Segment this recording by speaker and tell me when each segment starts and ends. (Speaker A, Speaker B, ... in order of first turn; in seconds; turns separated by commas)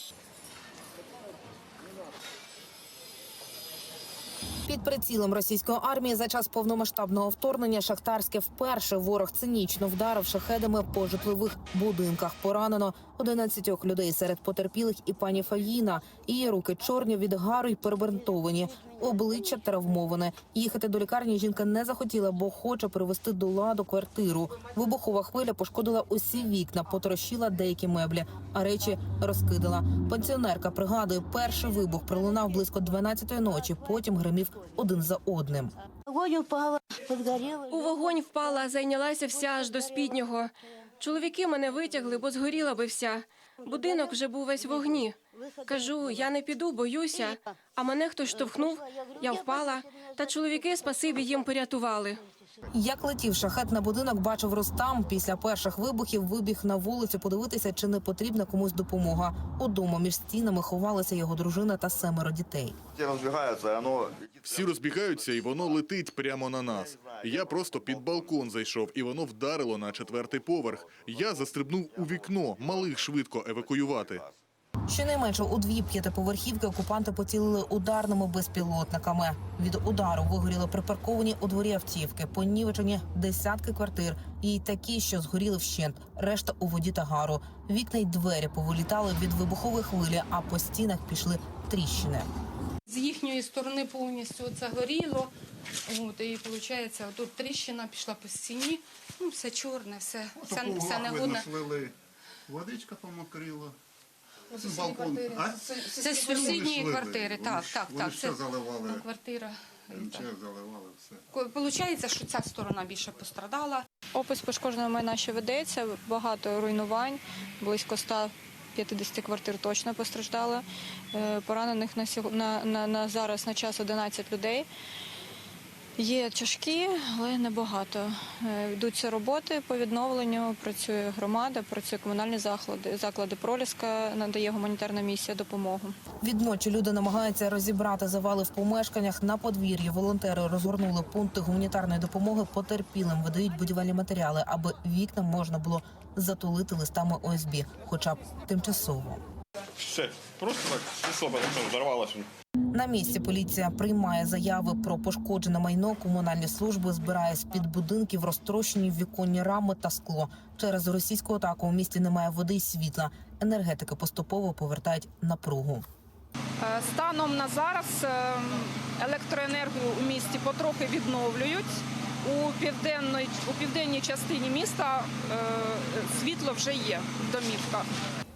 Speaker A: 4.7-35.7, Speaker B: 37.7-52.2, Speaker A: 52.7-62.8, Speaker C: 64.3-74.3, Speaker A: 74.9-92.3, Speaker D: 92.9-95.3, Speaker D: 95.9-101.5, Speaker E: 100.3-101.9, Speaker E: 102.5-103.8, Speaker D: 104.5-110.3, Speaker E: 104.6-109.1, Speaker E: 109.9-111.2, Speaker D: 111.3-113.8, Speaker F: 114.1-124.7, Speaker F: 126.0-135.9, Speaker A: 136.2-149.2, Speaker G: 149.8-152.0, Speaker A: 152.7-165.8, Speaker H: 166.6-177.9